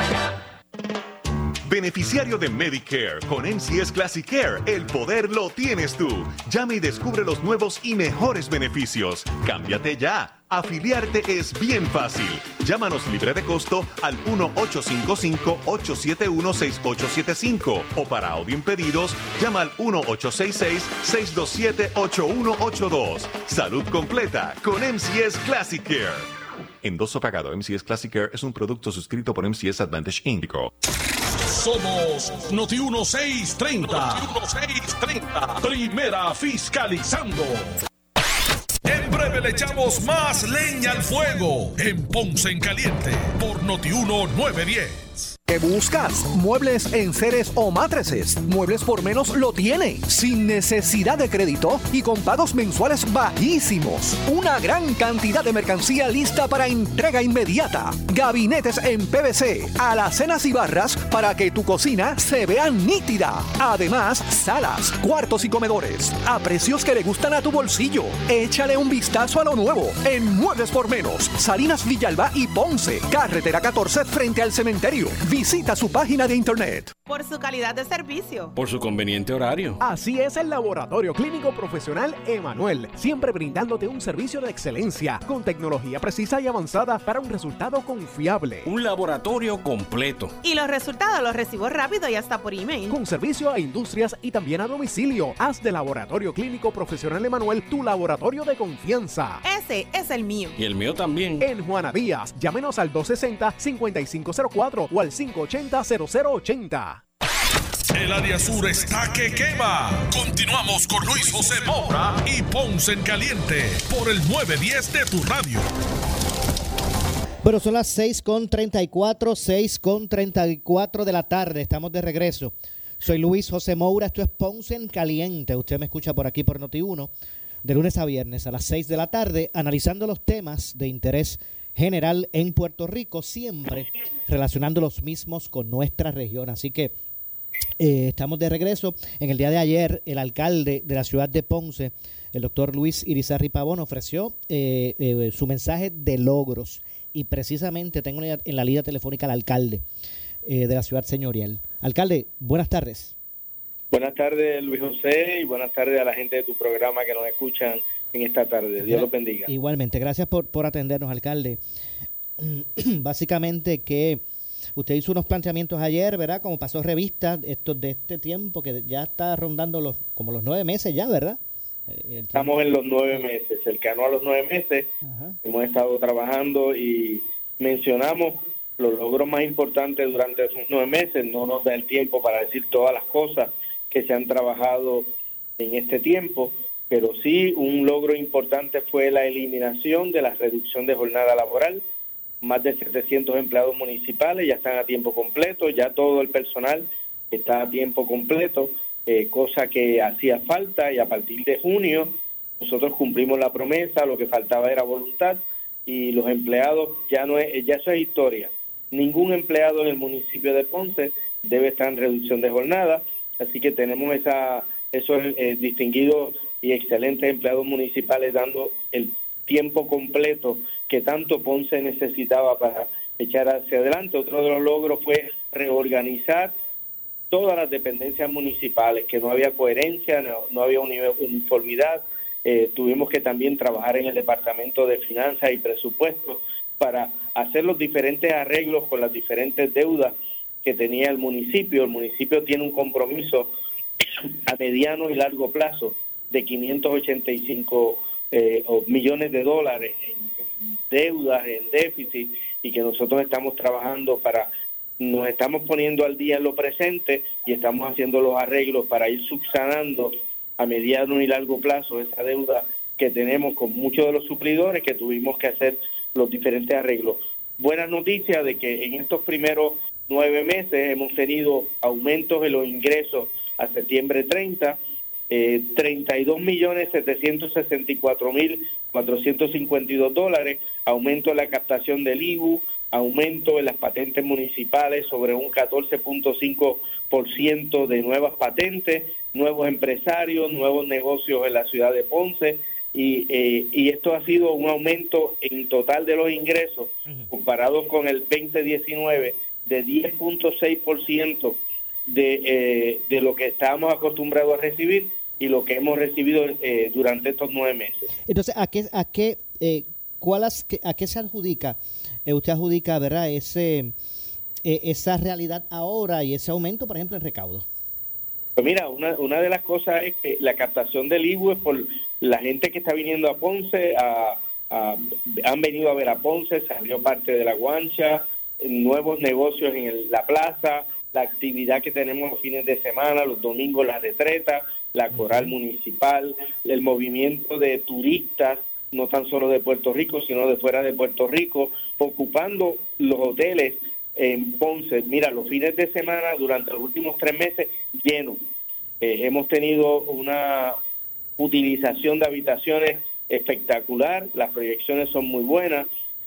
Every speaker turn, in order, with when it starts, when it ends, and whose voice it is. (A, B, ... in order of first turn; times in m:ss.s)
0:01.6-0:26.3 A
0:26.8-0:30.7 A
0:31.4-0:37.8 B
0:38.8-0:45.3 B
0:45.5-1:16.9 C
1:17.1-1:18.5 D
1:18.6-1:19.8 E
1:19.8-1:28.7 F
1:28.6-1:30.3 E
1:30.4-1:33.0 D
1:32.9-1:39.4 F
1:39.4-1:40.6 D
1:40.6-1:41.4 E
1:41.4-1:47.0 F
1:47.9-1:55.7 B
1:57.4-2:07.1 G
2:07.6-2:16.9 G
2:17.8-2:29.8 G
2:30.4-2:33.1 G
2:33.9-2:39.5 H
2:38.8-2:41.6 G
2:42.4-2:44.2 G
2:44.8-2:52.5 G
2:52.3-2:54.9 H
2:55.0-2:55.4 G
2:55.4-3:11.8 H
3:12.4-3:46.5 H
3:47.3-4:03.5 H
4:04.5-4:10.3 H
4:10.9-4:34.8 H
4:35.3-5:08.1 H
5:08.3-5:13.9 G
5:14.6-5:17.7 G
5:18.6-5:48.4 H
5:35.2-5:35.5 G
5:49.0-5:50.8 H
5:51.4-5:55.9 H